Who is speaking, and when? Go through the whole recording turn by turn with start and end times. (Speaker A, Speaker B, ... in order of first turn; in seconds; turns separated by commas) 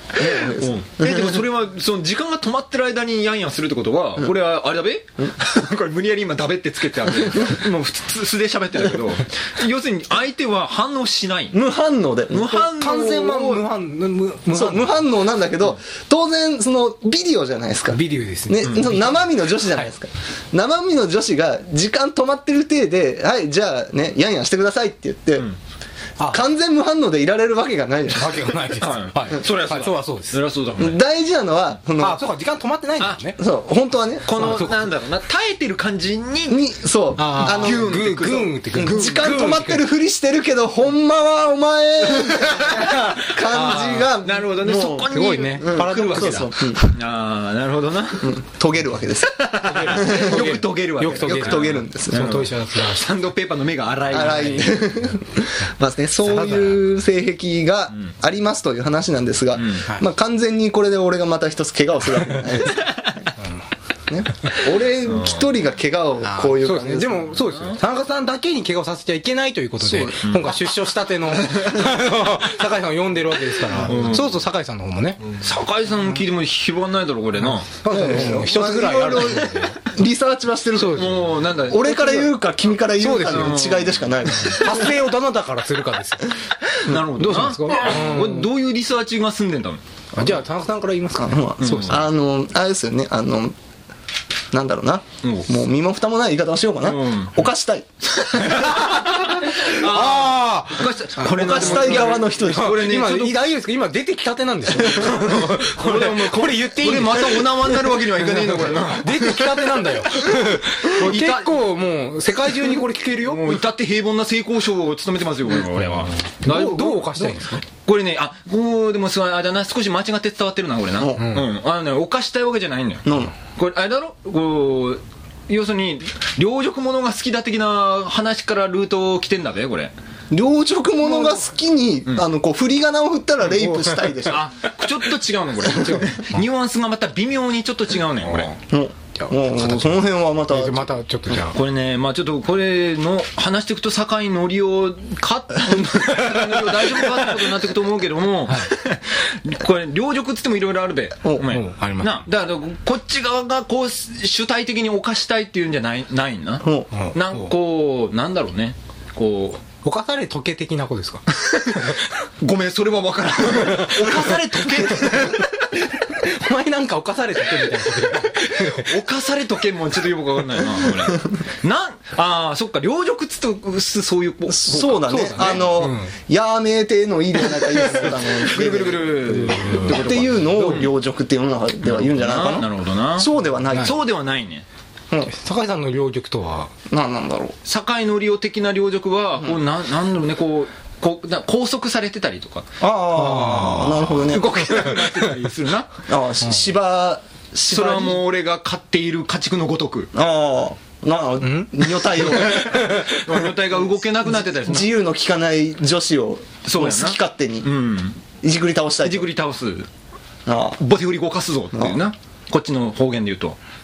Speaker A: 0.1-1.4, Speaker B: 0.2-11.6, Speaker A: 11.5-12.7, Speaker B: 12.3-13.7, Speaker C: 12.6-15.0, Speaker A: 14.5-25.5, Speaker C: 17.9-19.9, Speaker A: 26.3-28.6, Speaker C: 28.1-30.4, Speaker B: 28.8-31.0, Speaker A: 30.8-32.2, Speaker C: 32.0-33.4, Speaker A: 33.4-34.6, Speaker B: 34.2-36.6, Speaker C: 34.4-34.8, Speaker A: 36.5-38.0, Speaker C: 37.2-39.9, Speaker B: 37.4-39.3, Speaker A: 38.7-47.0, Speaker B: 42.1-43.0, Speaker C: 42.7-44.1, Speaker B: 43.5-48.4, Speaker C: 45.1-46.5, Speaker A: 48.2-52.4, Speaker B: 49.3-55.0, Speaker C: 49.7-53.1, Speaker A: 54.1-63.1, Speaker C: 56.2-56.8, Speaker B: 59.6-59.9, Speaker A: 64.1-67.4, Speaker C: 66.2-75.3, Speaker B: 67.4-67.8, Speaker B: 69.9-70.5, Speaker B: 71.5-71.8, Speaker B: 73.9-74.3, Speaker B: 75.3-77.7, Speaker C: 77.7-79.8, Speaker A: 77.9-84.9, Speaker C: 80.8-81.2, Speaker B: 80.9-82.3, Speaker C: 83.0-83.6, Speaker B: 83.2-84.6, Speaker C: 84.5-86.4, Speaker B: 86.8-89.8, Speaker C: 86.9-88.5, Speaker C: 90.2-92.0, Speaker A: 91.2-93.6, Speaker B: 91.6-92.0, Speaker A: 94.5-98.6, Speaker B: 95.2-95.5, Speaker B: 96.8-97.5, Speaker B: 98.2-103.5, Speaker C: 98.6-113.6, Speaker A: 101.2-102.9, Speaker A: 104.8-105.2, Speaker B: 104.9-110.1, Speaker B: 110.8-111.6, Speaker B: 113.2-129.9, Speaker C: 116.4-117.6, Speaker A: 121.0-121.2, Speaker C: 121.2-121.5, Speaker A: 123.1-123.3, Speaker A: 130.3-134.5, Speaker C: 133.6-134.1, Speaker B: 134.3-138.6, Speaker A: 138.7-140.9, Speaker C: 139.2-141.6, Speaker B: 141.5-159.6, Speaker C: 151.4-152.2, Speaker A: 156.6-156.9, Speaker C: 156.9-157.5, Speaker C: 159.8-161.2, Speaker B: 161.4-165.8, Speaker C: 163.6-164.9, Speaker C: 166.2-169.0, Speaker B: 168.6-175.6, Speaker A: 174.5-184.0, Speaker C: 175.1-176.1, Speaker B: 177.8-180.9, Speaker C: 179.4-180.0, Speaker B: 181.8-184.7, Speaker C: 185.2-186.7, Speaker A: 186.9-187.6, Speaker B: 187.7-192.7, Speaker A: 192.8-195.0, Speaker C: 193.2-195.3, Speaker B: 194.2-195.9, Speaker A: 196.1-198.2, Speaker B: 197.7-200.1, Speaker A: 200.1-203.0, Speaker C: 201.4-203.2, Speaker B: 202.2-204.9, Speaker A: 204.2-207.7, Speaker B: 206.7-208.2, Speaker A: 208.4-209.3, Speaker B: 209.0-209.9, Speaker A: 210.5-210.8, Speaker B: 210.8-213.6